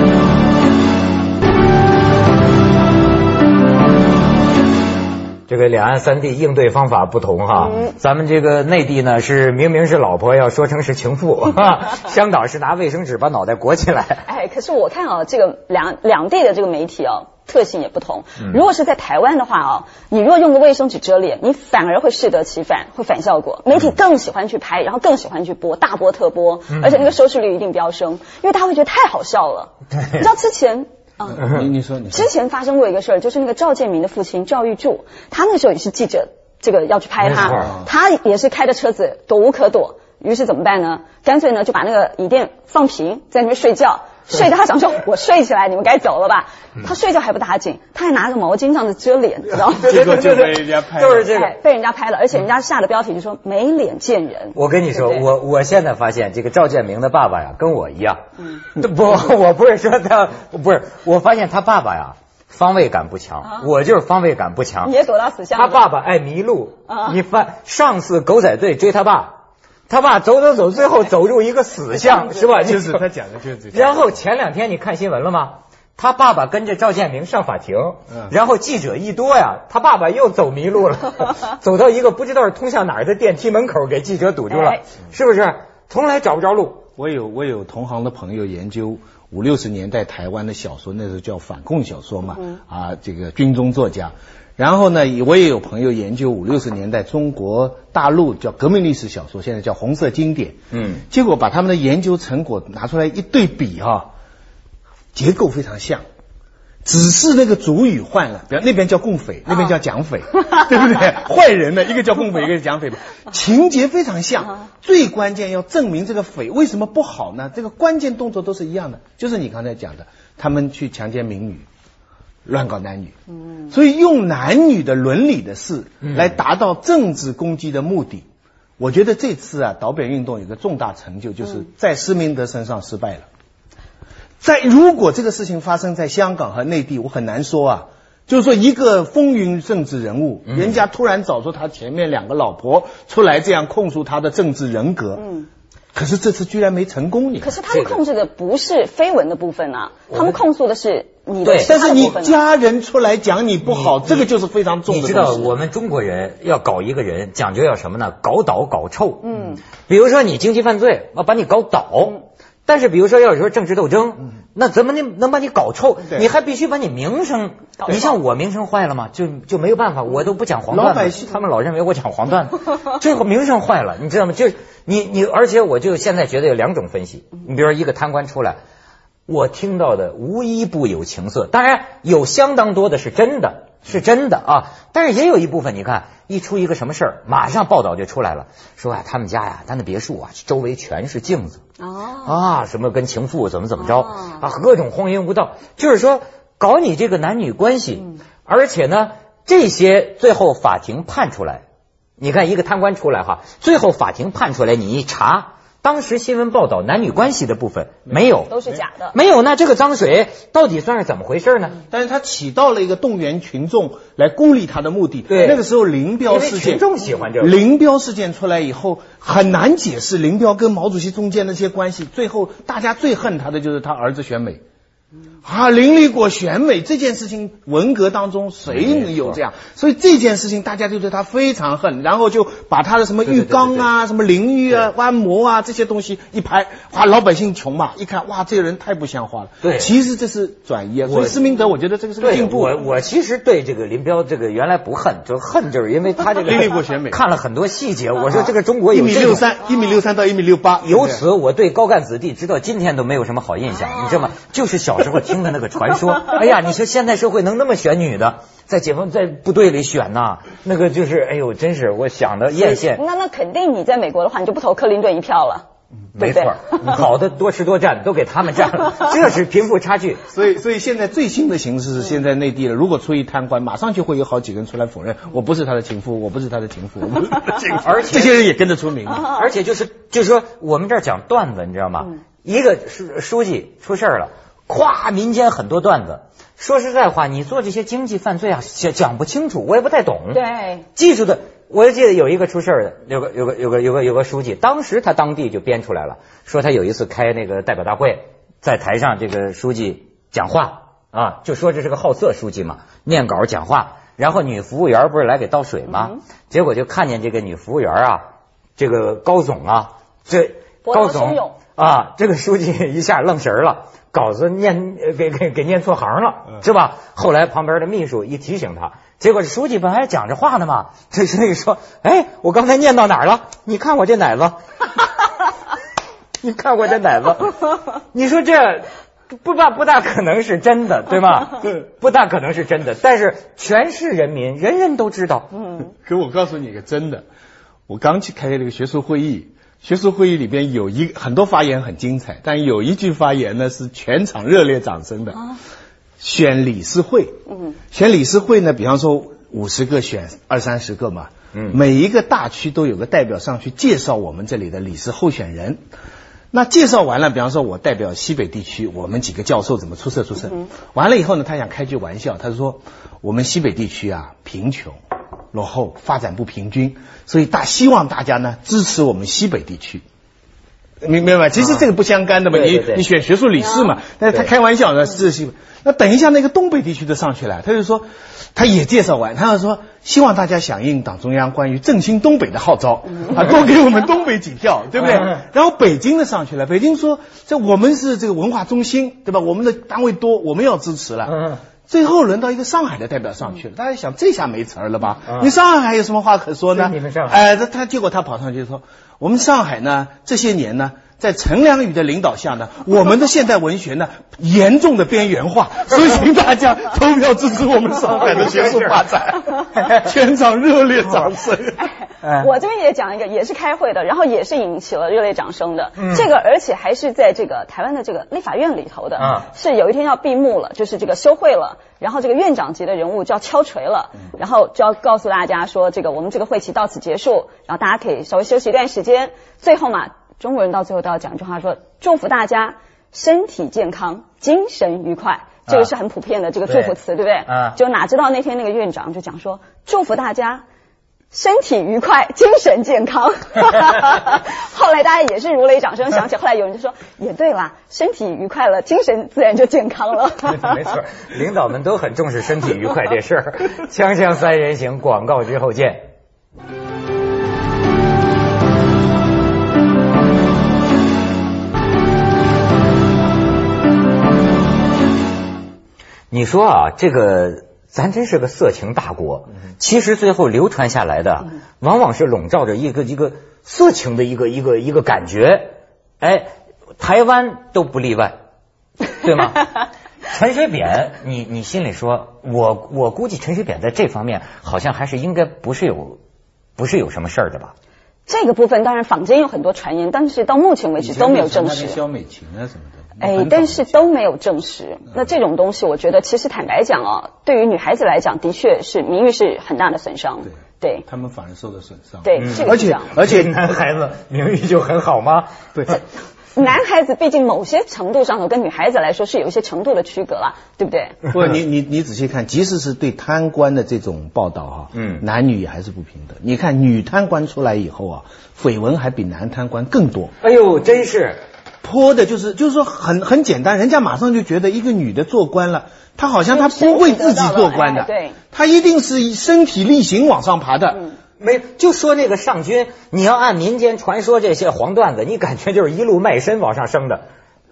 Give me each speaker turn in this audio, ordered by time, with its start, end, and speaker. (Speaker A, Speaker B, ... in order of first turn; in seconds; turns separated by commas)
Speaker A: 5.5-14.2, Speaker B: 7.6-7.9, Speaker B: 14.3-31.5, Speaker A: 26.8-27.0, Speaker C: 31.3-32.3, Speaker B: 32.1-50.2, Speaker A: 37.2-37.7, Speaker A: 49.7-51.5, Speaker C: 49.8-51.4, Speaker B: 51.3-55.3, Speaker A: 54.5-64.9, Speaker B: 64.8-65.9, Speaker A: 65.5-69.3, Speaker B: 66.9-67.2, Speaker A: 69.9-73.0, Speaker C: 72.2-74.0, Speaker A: 73.7-86.8, Speaker B: 84.5-84.8, Speaker C: 87.0-104.1, Speaker A: 100.7-101.0, Speaker C: 105.1-106.0, Speaker C: 106.8-121.7, Speaker C: 122.5-123.1, Speaker C: 123.7-128.2, Speaker A: 126.0-126.3, Speaker C: 128.8-133.3, Speaker C: 134.4-145.2, Speaker A: 140.5-140.8, Speaker B: 145.2-145.5, Speaker C: 145.9-147.6, Speaker B: 147.4-152.4, Speaker A: 147.7-148.0, Speaker A: 150.1-150.4, Speaker A: 151.4-151.7, Speaker C: 151.6-155.6, Speaker A: 153.6-154.3, Speaker A: 154.9-178.6, Speaker B: 159.2-159.6, Speaker B: 167.8-168.2, Speaker C: 170.7-171.3, Speaker A: 179.3-191.6, Speaker B: 191.8-192.4, Speaker A: 192.2-201.6, Speaker B: 193.8-194.4, Speaker A: 202.2-208.5, Speaker B: 208.5-209.2, Speaker A: 209.1-211.8, Speaker C: 211.9-216.9, Speaker A: 215.3-215.6, Speaker A: 216.3-217.6, Speaker C: 217.4-224.6, Speaker C: 225.4-242.8, Speaker A: 228.7-229.4, Speaker A: 233.3-233.9, Speaker A: 239.6-239.9, Speaker A: 241.1-241.5, Speaker A: 242.2-249.5, Speaker C: 246.4-247.2, Speaker C: 248.4-251.2, Speaker A: 250.8-263.0, Speaker B: 262.5-265.6, Speaker A: 266.2-270.2, Speaker B: 266.2-266.6, Speaker C: 270.3-279.3, Speaker A: 277.7-278.4, Speaker A: 279.2-290.4, Speaker B: 290.3-290.9, Speaker A: 291.0-308.2, Speaker A: 308.8-324.6, Speaker B: 310.9-311.6, Speaker A: 326.4-335.5, Speaker C: 336.1-337.2, Speaker C: 337.9-345.4, Speaker C: 346.2-347.4, Speaker C: 347.9-355.8, Speaker C: 356.5-365.0, Speaker C: 365.5-370.0, Speaker C: 371.0-378.0, Speaker A: 372.5-373.1, Speaker C: 378.6-411.8, Speaker A: 385.0-385.3, Speaker A: 391.3-391.6, Speaker A: 395.3-395.5, Speaker A: 396.8-397.4, Speaker A: 408.1-409.1, Speaker B: 411.8-440.6, Speaker A: 416.0-416.3, Speaker A: 419.2-419.5, Speaker A: 436.7-437.8, Speaker B: 441.3-451.0, Speaker A: 450.5-456.1, Speaker A: 466.3-478.4, Speaker A: 479.1-486.2, Speaker A: 486.8-487.7, Speaker B: 488.3-492.0, Speaker C: 491.0-494.0, Speaker B: 493.2-501.1, Speaker C: 501.1-503.6, Speaker B: 502.2-503.1, Speaker A: 502.4-506.0, Speaker B: 506.6-511.2, Speaker C: 511.3-520.3, Speaker A: 515.0-515.2, Speaker A: 520.4-521.4, Speaker C: 521.8-531.0, Speaker B: 526.5-528.4, Speaker A: 531.4-537.3